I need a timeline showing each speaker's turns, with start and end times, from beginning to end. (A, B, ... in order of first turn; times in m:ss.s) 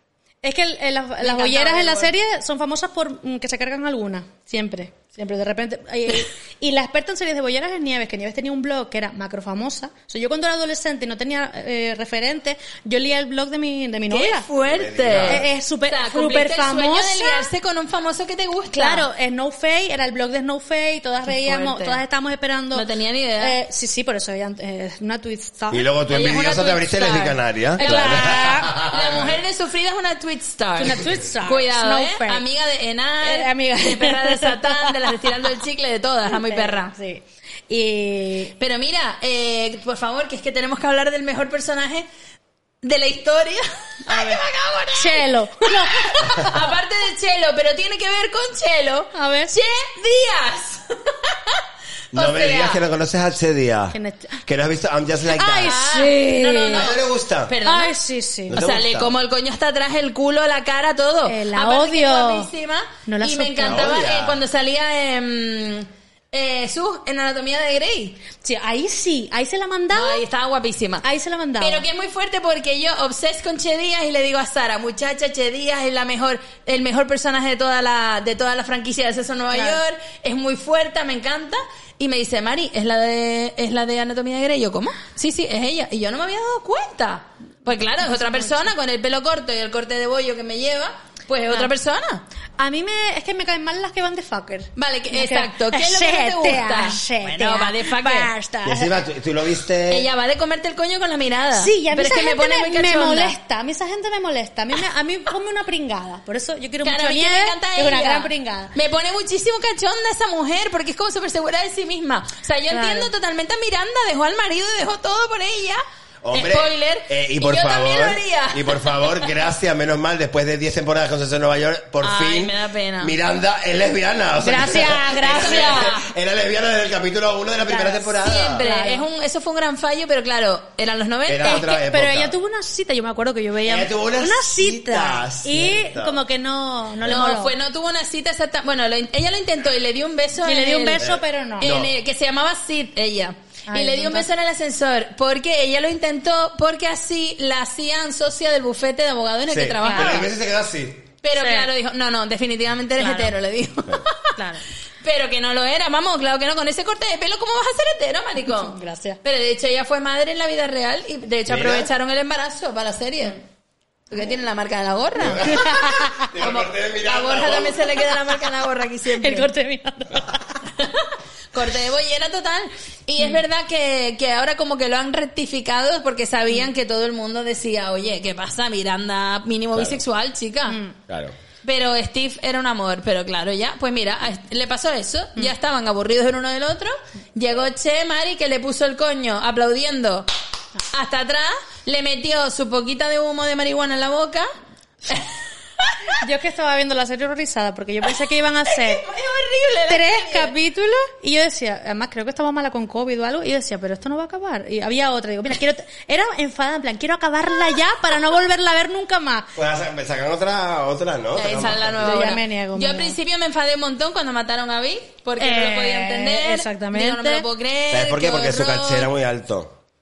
0:00.4-0:14.5 A
0:01.2-0:02.1 B
0:14.1-0:19.0 B
0:14.6-0:15.5 C
0:15.2-0:17.5 A
0:18.7-0:25.8 A
0:21.3-0:22.0 B
0:22.7-0:23.5 B
0:25.7-0:29.4 C
0:26.1-0:36.9 B
0:27.8-0:28.8 A
0:30.8-0:32.4 A
0:33.2-0:35.1 A
0:36.3-0:38.5 A
0:38.6-0:42.0 B
0:42.8-0:51.6 B
0:44.1-0:44.4 A
0:44.9-0:46.5 A
0:49.1-0:49.6 A
0:52.1-0:55.7 C
0:52.1-0:52.8 B
0:53.9-0:54.4 A
0:55.3-0:56.9 A
0:55.6-0:56.9 B
0:56.7-0:57.5 C
0:57.5-0:58.0 B
0:57.6-0:58.6 A
0:58.5-0:59.1 C
0:58.5-1:08.2 B
1:01.2-1:02.5 A
1:03.0-1:03.9 A
1:03.6-1:04.4 C
1:08.4-1:10.2 A
1:09.9-1:11.0 B
1:11.0-1:11.8 A
1:11.6-1:32.2 B
1:19.5-1:19.8 A
1:27.8-1:28.7 A
1:32.6-1:39.0 A
1:34.8-1:38.3 B
1:38.6-1:40.1 C
1:39.9-1:43.3 B
1:41.6-1:48.7 A
1:46.8-1:55.8 B
1:52.7-1:53.1 A
1:56.2-2:08.6 C
1:56.3-1:59.3 B
2:02.0-2:03.1 B
2:04.4-2:05.9 A
2:05.2-2:06.0 B
2:07.6-2:09.0 A
2:08.2-2:11.7 B
2:11.3-2:12.3 C
2:11.4-2:17.5 A
2:13.6-2:16.2 C
2:17.1-2:21.0 B
2:20.4-2:21.7 A
2:21.0-2:21.9 C
2:21.6-2:30.3 B
2:23.7-2:24.3 A
2:29.5-2:31.1 C
2:29.8-2:30.2 A
2:31.2-2:34.3 B
2:31.3-2:31.7 A
2:33.0-2:33.3 A
2:34.4-2:34.6 A
2:35.0-2:43.4 B
2:38.5-2:39.2 A
2:41.5-2:41.9 C
2:44.1-2:49.5 B
2:45.2-2:48.0 C
2:45.4-2:46.3 A
2:49.2-2:50.6 A
2:50.7-3:00.8 B
2:59.7-3:00.0 C
3:00.7-3:00.9 A
3:01.1-3:01.3 C
3:01.6-3:10.3 B
3:10.9-3:14.5 B
3:15.1-3:16.2 B
3:16.2-3:19.0 A
3:18.6-3:20.5 B
3:19.9-3:29.5 A
3:29.6-3:32.2 C
3:31.4-3:39.1 B
3:32.0-3:33.1 A
3:35.4-3:37.4 A
3:37.9-3:39.7 C